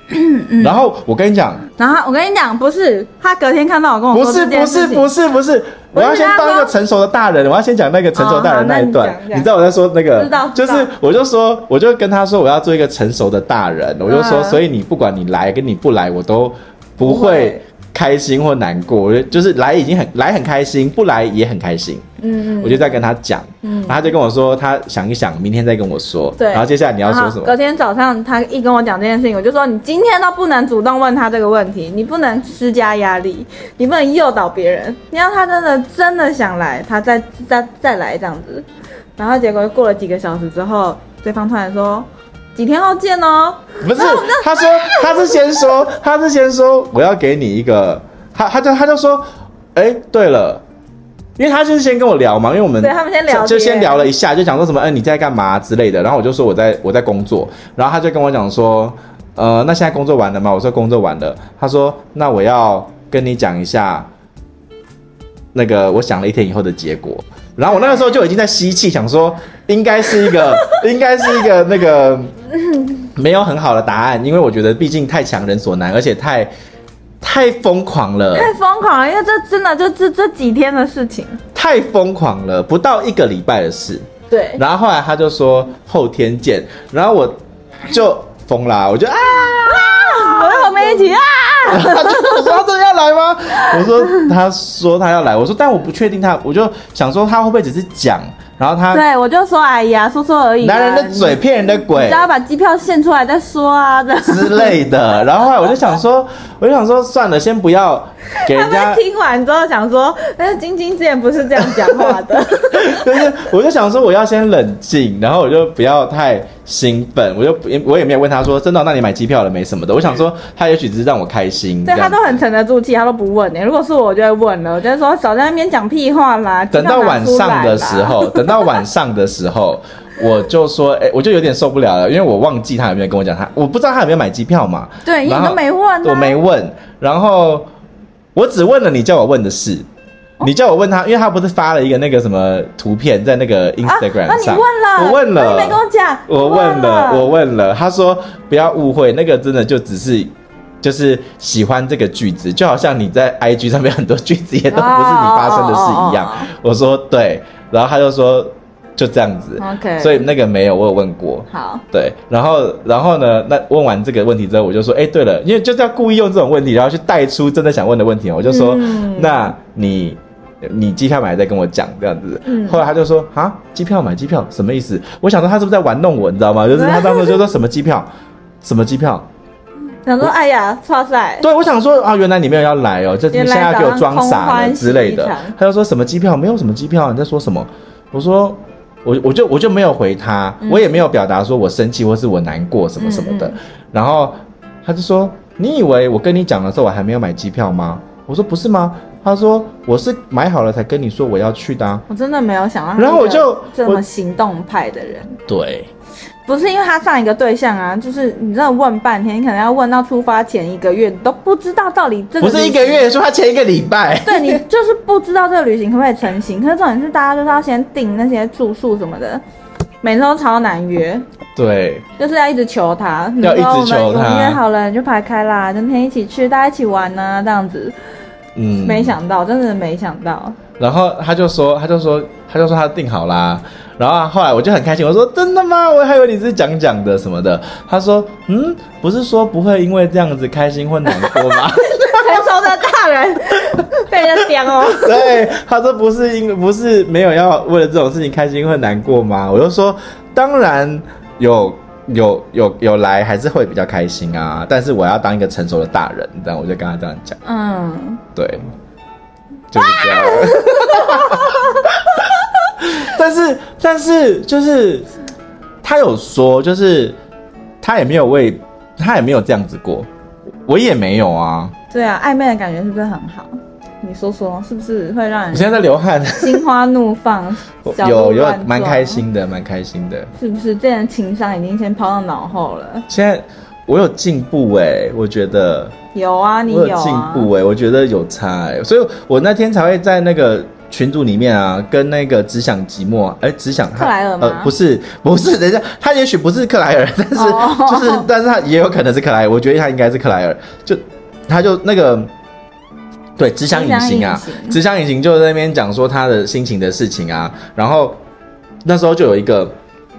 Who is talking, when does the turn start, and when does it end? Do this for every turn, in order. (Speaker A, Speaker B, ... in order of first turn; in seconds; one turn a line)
Speaker A: 0.1-0.8
Speaker B: 0.6-1.7
Speaker A: 1.8-5.1
Speaker B: 4.1-22.1
Speaker A: 5.9-6.7
Speaker A: 8.2-9.5
Speaker A: 10.2-10.9
Speaker A: 14.1-14.6
Speaker A: 17.0-17.6
Speaker A: 22.2-23.0
Speaker B: 22.6-27.5
Speaker A: 23.6-24.1
Speaker A: 26.4-45.8
Speaker B: 43.8-50.6
Speaker B: 51.4-64.1
Speaker A: 52.8-54.1
Speaker B: 65.5-72.3
Speaker A: 67.7-68.2
Speaker A: 72.7-73.1
Speaker B: 73.2-76.5
Speaker B: 77.2-78.5
Speaker A: 78.3-81.4
Speaker B: 81.5-91.0
Speaker A: 84.3-84.6
Speaker A: 89.4-92.6
Speaker B: 91.7-99.0
Speaker A: 93.6-94.3
Speaker A: 98.9-104.8
Speaker B: 100.6-102.3
Speaker B: 104.2-109.0
Speaker A: 108.5-113.3
Speaker B: 112.7-122.4
Speaker A: 121.9-128.8
Speaker B: 126.7-137.7
Speaker A: 135.1-136.4
Speaker B: 138.3-139.8
Speaker B: 140.4-150.3
Speaker A: 143.8-147.3
Speaker B: 150.8-178.1
Speaker A: 154.7-156.5
Speaker A: 159.6-160.3
Speaker A: 161.5-161.8
Speaker A: 168.4-169.5
Speaker A: 172.4-172.8
Speaker A: 176.7-177.4
Speaker B: 178.6-179.3
Speaker A: 180.1-181.5
Speaker B: 181.4-202.1
Speaker A: 183.3-185.5
Speaker A: 190.6-191.0
Speaker A: 193.0-193.6
Speaker A: 202.1-205.4
Speaker B: 203.0-204.0
Speaker B: 205.5-205.9
Speaker A: 206.5-213.1
Speaker B: 212.4-214.6
Speaker A: 214.2-219.4
Speaker A: 220.0-221.2
Speaker B: 221.6-222.1
Speaker A: 222.2-227.9
Speaker B: 223.4-224.6
Speaker B: 228.6-229.2
Speaker A: 228.8-230.6
Speaker B: 230.8-242.6
Speaker A: 241.1-245.4
Speaker B: 244.3-257.4
Speaker A: 257.4-258.2
Speaker B: 258.4-258.7
Speaker B: 259.7-265.1
Speaker A: 259.8-261.9
Speaker B: 265.8-267.2
Speaker B: 267.8-270.1
Speaker B: 270.7-271.7
Speaker A: 271.9-275.9
Speaker B: 275.5-276.6
Speaker A: 276.4-279.2
Speaker B: 277.9-280.3
Speaker A: 280.4-283.1
Speaker B: 283.1-285.9
Speaker A: 286.1-287.5
Speaker B: 286.7-302.3
Speaker A: 293.9-294.7
Speaker A: 297.4-298.3
Speaker B: 303.4-308.2
Speaker A: 303.7-304.8
Speaker B: 308.9-309.8